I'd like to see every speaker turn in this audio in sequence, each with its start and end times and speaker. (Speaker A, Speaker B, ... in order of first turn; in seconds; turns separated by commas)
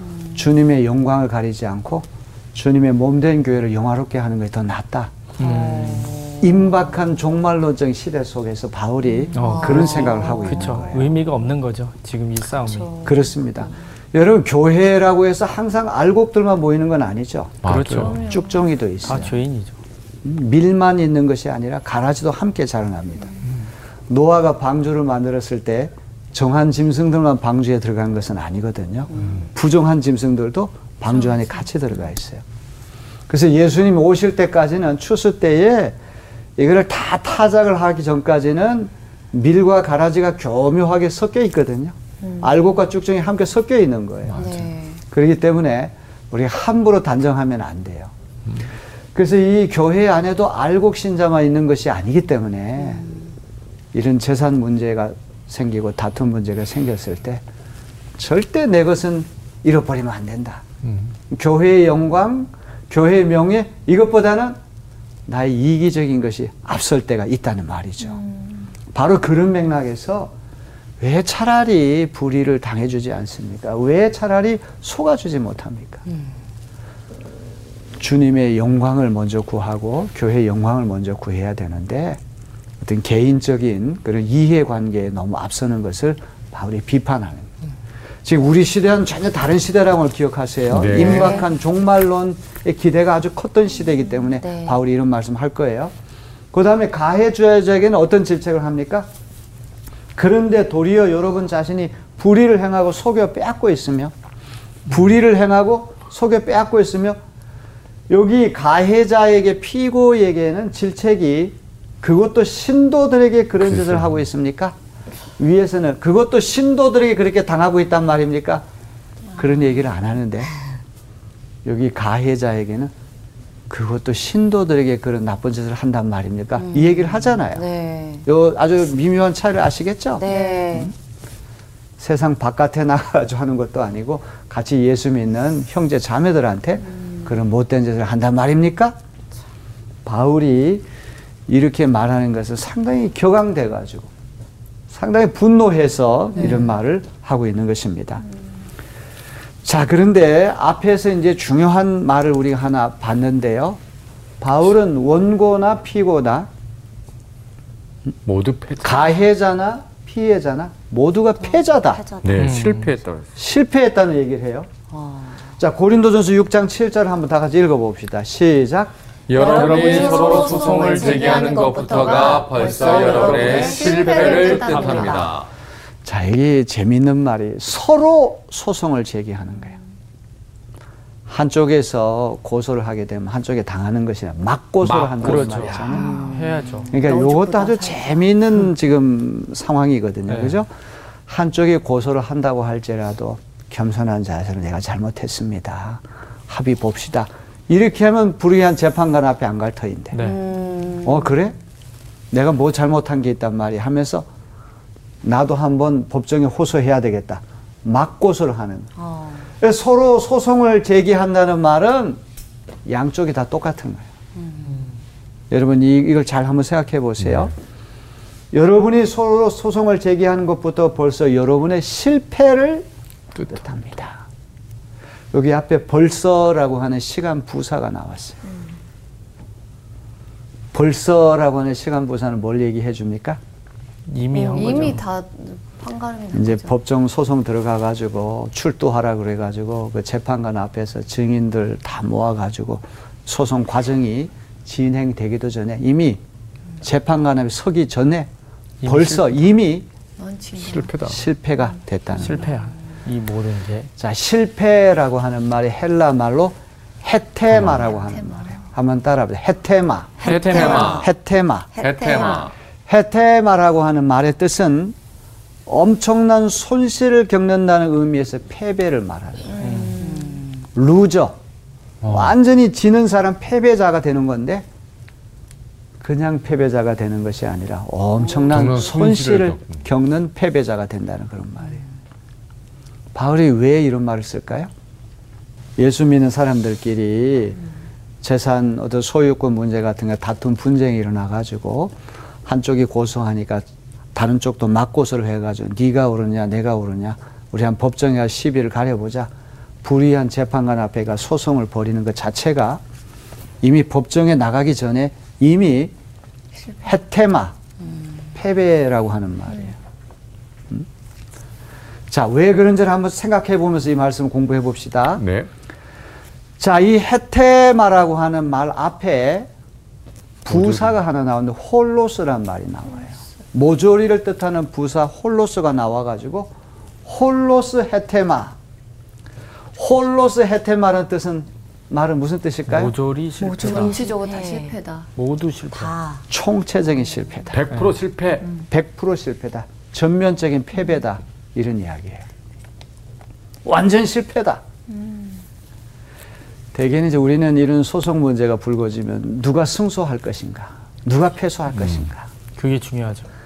Speaker A: 0.3-5.1, Speaker B: 5.4-6.2, Speaker C: 5.4-6.6, Speaker A: 6.4-11.2, Speaker C: 9.2-10.8, Speaker B: 9.3-12.9, Speaker C: 12.7-13.7, Speaker A: 13.0-19.4, Speaker D: 17.6-18.2, Speaker B: 17.6-18.2, Speaker E: 18.0-18.6, Speaker B: 19.0-19.8, Speaker A: 20.2-23.4, Speaker A: 24.1-32.4, Speaker A: 33.3-36.0, Speaker A: 36.6-48.1, Speaker E: 42.2-42.5, Speaker D: 44.3-44.7, Speaker C: 44.4-45.0, Speaker A: 49.1-53.0, Speaker A: 53.9-57.4, Speaker A: 58.2-60.6, Speaker D: 60.8-61.1, Speaker A: 61.3-64.6, Speaker A: 65.3-68.2, Speaker E: 68.1-68.7, Speaker A: 68.9-70.3, Speaker A: 71.0-76.0, Speaker A: 78.0-82.2, Speaker A: 82.8-87.5, Speaker A: 88.2-95.9, Speaker D: 90.7-91.4, Speaker C: 91.0-91.5, Speaker C: 94.4-94.8, Speaker A: 96.5-99.1, Speaker A: 100.2-104.1, Speaker A: 104.9-107.2, Speaker A: 108.1-114.8, Speaker D: 113.8-114.1, Speaker A: 115.4-118.7, Speaker A: 119.4-120.5, Speaker A: 121.6-122.9, Speaker A: 123.7-127.7, Speaker C: 126.6-128.3, Speaker A: 128.2-130.9, Speaker C: 130.2-130.9, Speaker A: 132.0-139.0, Speaker A: 140.1-140.8, Speaker A: 141.5-144.1, Speaker A: 144.9-148.2, Speaker A: 149.6-153.8, Speaker A: 154.4-156.5, Speaker D: 158.2-159.1, Speaker A: 158.8-162.0, Speaker C: 161.5-162.6, Speaker D: 162.2-163.3, Speaker B: 162.4-162.9, Speaker A: 163.3-164.7, Speaker C: 164.9-165.5, Speaker A: 165.6-168.9, Speaker D: 169.3-175.5, Speaker C: 169.3-174.5, Speaker E: 169.4-175.3, Speaker B: 169.6-170.1, Speaker B: 173.3-175.3, Speaker A: 176.0-179.8, Speaker A: 181.3-186.2, Speaker D: 184.8-185.9, Speaker B: 185.2-186.9, Speaker C: 186.0-187.2, Speaker E: 186.0-186.3, Speaker A: 186.9-190.7, Speaker E: 187.0-188.1, Speaker B: 190.3-190.6, Speaker A: 191.3-200.2, Speaker B: 200.1-200.4, Speaker C: 200.2-201.3, Speaker A: 201.0-201.6, Speaker A: 202.3-204.3, Speaker A: 205.2-208.9, Speaker C: 209.0-209.5, Speaker A: 209.6-212.2, Speaker A: 212.9-214.1, Speaker C: 214.4-214.8, Speaker A: 215.5-217.5, Speaker A: 218.5-224.2, Speaker A: 225.3-228.4, Speaker A: 230.7-233.4, Speaker B: 234.1-235.0, Speaker E: 234.5-236.8, Speaker A: 236.3-246.2, Speaker A: 246.8-248.3, Speaker B: 248.8-249.2, Speaker A: 248.8-249.9, Speaker E: 250.2-251.0, Speaker D: 250.6-251.2, Speaker A: 251.0-252.5, Speaker B: 252.2-253.9, Speaker A: 254.0-261.7, Speaker E: 258.1-258.6, Speaker C: 260.2-261.1, Speaker D: 260.2-261.1, Speaker B: 260.3-260.8, Speaker C: 261.8-262.5, Speaker D: 261.8-262.5, Speaker A: 262.9-264.9, Speaker A: 265.7-269.6, Speaker E: 269.5-270.4, Speaker B: 269.6-270.0, Speaker C: 270.0-270.7, Speaker A: 270.7-271.4, Speaker D: 272.0-272.3, Speaker A: 272.1-274.7, Speaker A: 276.0-281.8, Speaker D: 278.5-279.8, Speaker A: 283.1-284.7, Speaker A: 285.8-287.6, Speaker A: 288.2-291.9, Speaker A: 292.5-299.3, Speaker A: 299.8-302.8, Speaker A: 303.6-305.9, Speaker A: 306.8-307.6, Speaker A: 308.3-309.8, Speaker A: 312.1-315.2, Speaker D: 315.2-315.5, Speaker A: 316.6-319.5, Speaker A: 320.4-326.5, Speaker D: 320.5-320.9, Speaker A: 327.1-328.6, Speaker A: 329.8-332.9, Speaker B: 332.7-334.0, Speaker C: 333.4-334.8, Speaker E: 333.6-335.1, Speaker B: 335.2-335.9, Speaker C: 335.7-336.2, Speaker A: 336.3-337.6, Speaker D: 337.5-338.5, Speaker A: 338.5-342.2, Speaker A: 343.6-344.6, Speaker E: 344.9-345.4, Speaker A: 346.7-352.3, Speaker B: 352.6-353.3